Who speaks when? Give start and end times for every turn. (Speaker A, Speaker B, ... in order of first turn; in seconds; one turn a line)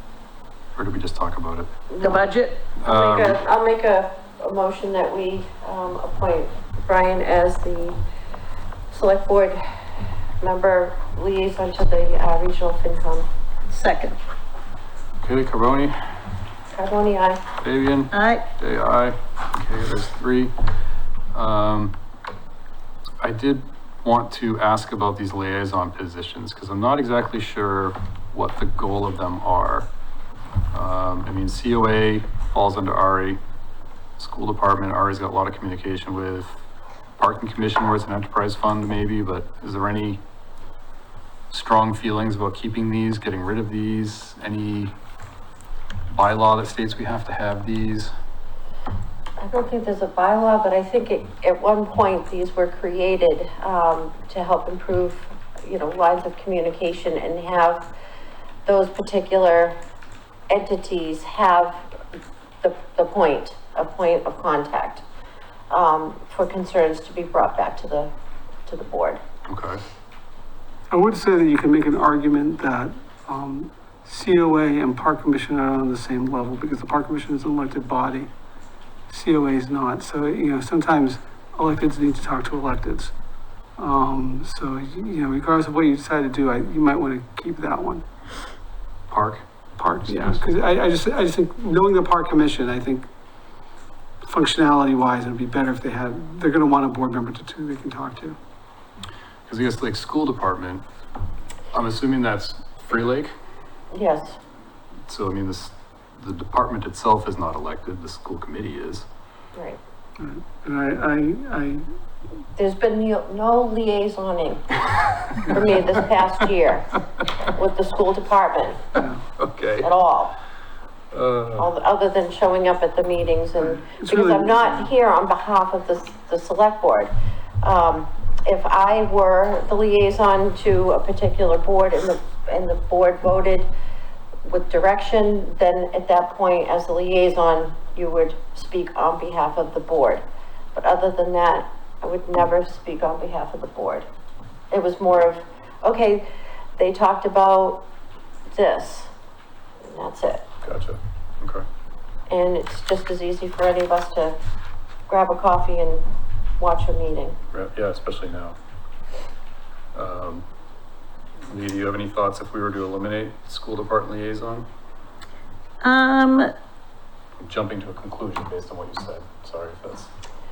Speaker A: 0.8-1.7
Speaker B: 1.9-2.3
Speaker C: 2.0-2.8
Speaker A: 2.8-3.4
Speaker B: 2.9-8.0
Speaker B: 8.9-9.6
Speaker B: 10.4-13.3
Speaker C: 13.7-14.2
Speaker A: 15.2-15.9
Speaker B: 16.7-17.4
Speaker A: 17.6-20.5
Speaker C: 18.1-18.4
Speaker A: 21.3-22.0
Speaker A: 23.2-29.9
Speaker A: 30.7-33.4
Speaker A: 34.2-36.6
Speaker A: 37.2-40.2
Speaker A: 41.5-44.9
Speaker A: 46.1-48.1
Speaker B: 49.4-57.9
Speaker B: 58.7-59.8
Speaker B: 60.5-61.9
Speaker B: 62.6-65.0
Speaker B: 65.7-68.1
Speaker B: 68.7-69.2
Speaker A: 69.5-69.8
Speaker D: 70.9-78.3
Speaker D: 79.1-83.1
Speaker D: 83.8-88.0
Speaker A: 89.1-89.5
Speaker D: 89.8-93.1
Speaker A: 90.1-90.4
Speaker D: 94.2-98.4
Speaker A: 99.5-100.8
Speaker A: 101.7-103.3
Speaker B: 103.9-104.4
Speaker A: 105.1-109.1
Speaker B: 109.5-109.8
Speaker D: 110.2-111.9
Speaker B: 112.6-114.8
Speaker B: 115.5-116.9
Speaker B: 117.5-118.9
Speaker A: 119.3-119.9
Speaker B: 119.8-120.4
Speaker A: 121.1-121.7
Speaker B: 121.6-133.7
Speaker D: 123.8-124.6
Speaker B: 134.5-140.2
Speaker B: 140.8-144.1
Speaker B: 144.7-146.3
Speaker B: 146.8-147.9
Speaker B: 148.5-149.1
Speaker B: 149.8-150.5
Speaker A: 150.6-151.7
Speaker B: 152.3-154.4
Speaker B: 155.1-156.1
Speaker B: 156.6-157.4
Speaker A: 157.5-158.6
Speaker A: 159.9-160.4
Speaker A: 161.5-164.7
Speaker C: 165.8-166.5
Speaker A: 167.4-170.1